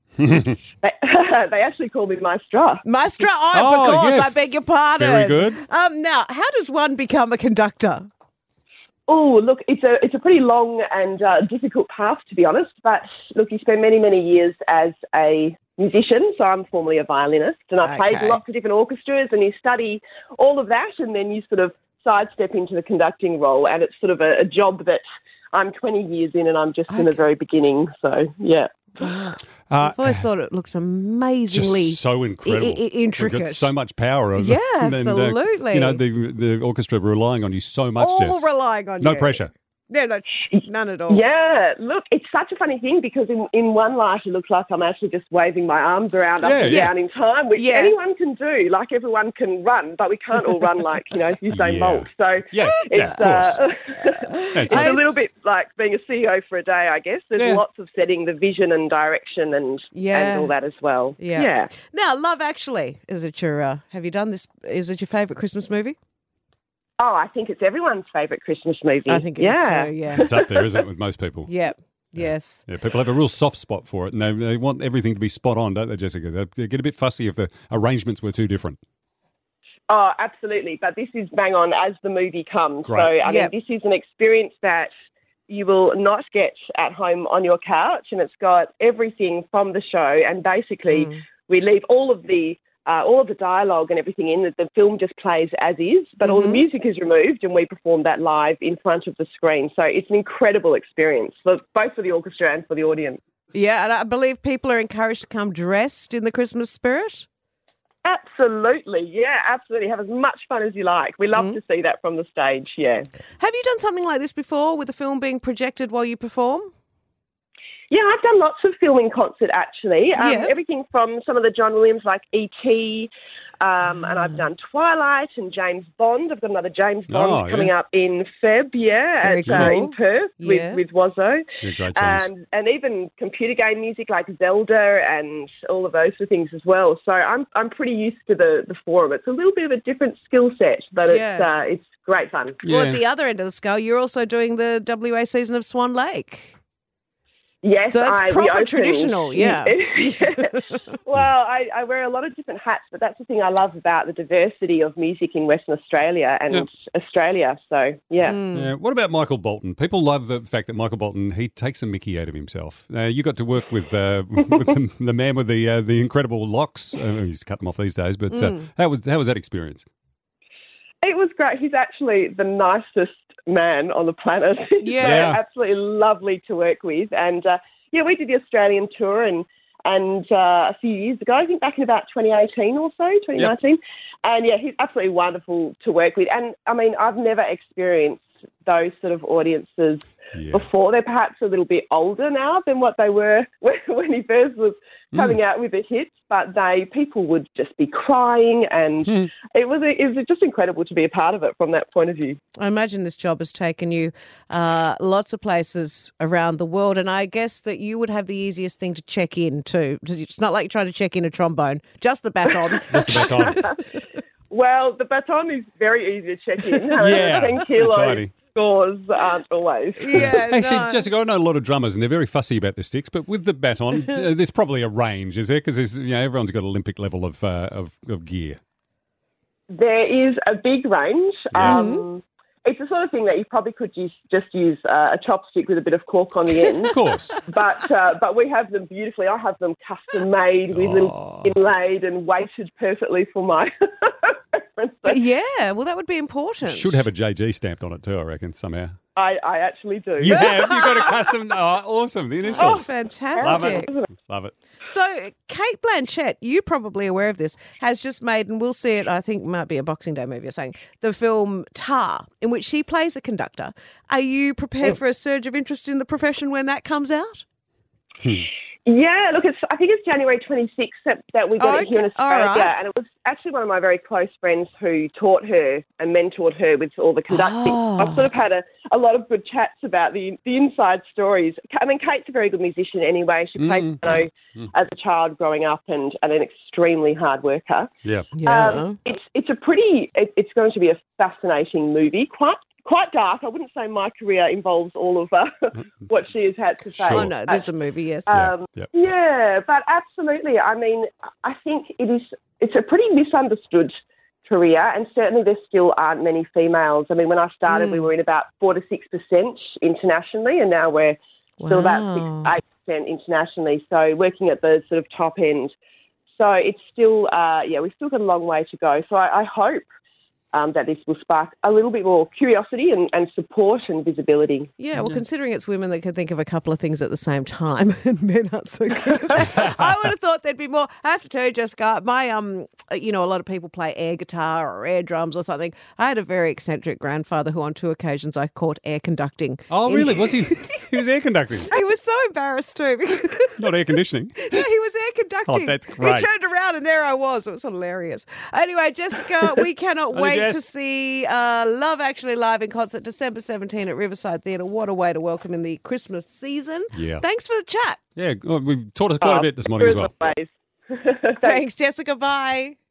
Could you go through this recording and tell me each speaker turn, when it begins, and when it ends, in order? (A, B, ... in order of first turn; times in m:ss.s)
0:00.2-0:00.6 A
0:00.8-0:02.8 B
0:02.8-0:08.1 C
0:03.5-0:05.6 A
0:09.1-0:29.1 B
0:17.8-0:18.4 C
0:26.9-0:27.2 C
0:29.0-0:33.7 C
0:29.7-0:30.3 A
0:31.5-0:38.5 A
0:34.4-0:36.0 C
0:38.0-0:41.2 C
0:39.0-0:39.5 A
0:40.5-1:01.7 B
0:46.4-0:46.9 A
0:46.6-0:46.9 C
0:47.6-0:48.0 C
0:51.5-0:53.6 A
0:54.1-0:55.1 C
0:54.5-0:55.1 A
0:57.4-0:57.6 A
0:59.9-1:00.5 C
1:01.2-1:06.0 C
1:07.0-1:10.8 B
1:09.1-1:10.3 C
1:10.2-1:11.5 A
1:11.5-1:12.6 C
1:12.2-1:18.8 A
1:19.9-1:24.9 B
1:23.2-1:23.5 C
1:25.5-1:43.2 B
1:30.9-1:31.2 C
1:36.2-1:36.6 C
1:43.5-1:47.3 C
1:48.0-1:53.1 B
1:53.4-1:56.7 C
1:57.9-2:22.6 B
2:00.2-2:00.5 C
2:04.0-2:04.3 C
2:07.1-2:07.7 A
2:09.2-2:10.8 C
2:09.4-2:09.7 A
2:11.6-2:12.3 A
2:21.1-2:21.5 C
2:22.6-2:23.0 A
2:22.7-2:26.6 C
2:27.6-2:38.4 B
2:27.9-2:30.8 C
2:38.3-2:38.7 C
2:38.5-2:49.9 A
2:48.3-2:48.6 C
2:51.0-3:22.4 B
2:54.8-2:55.3 C
2:55.0-2:55.4 A
3:10.3-3:10.7 A
3:22.6-3:33.6 C
3:32.9-3:33.6 A
3:33.1-3:33.8 B
3:34.5-3:40.4 B
3:37.0-3:38.3 A
3:40.0-3:41.1 C
3:40.1-3:48.6 A
3:49.7-4:05.2 B
3:51.5-3:51.8 A
3:51.6-3:52.0 C
3:56.8-3:57.3 A
4:00.8-4:01.5 A
4:05.1-4:07.1 C
4:06.6-4:09.0 A
4:09.2-4:11.1 B
4:10.2-4:14.5 A
4:10.3-4:11.2 C
4:12.5-4:13.9 C
4:12.6-4:14.1 B
4:14.9-4:27.4 C
4:28.9-4:47.9 B
4:31.6-4:32.7 C
4:37.3-4:38.3 C
4:43.6-4:44.0 A
4:48.3-4:49.0 C
4:48.4-4:57.7 B
4:57.0-4:57.3 A
4:57.1-4:58.4 C
4:58.3-5:03.9 B
4:58.3-4:58.9 A
5:04.5-5:15.7 B
5:07.7-5:08.1 C
5:11.6-5:12.5 C
5:16.4-5:19.9 B
5:20.5-5:24.7 B
5:24.8-5:40.9 C
5:25.0-5:25.2 A
5:39.7-5:41.7 A
5:41.7-5:43.7 C
5:43.6-5:44.6 A
5:44.4-5:58.0 C
5:45.5-5:46.3 A
5:50.1-5:50.6 A
5:56.9-5:57.2 A
5:58.2-6:00.1 A
5:59.2-6:01.6 B
6:01.4-6:02.8 C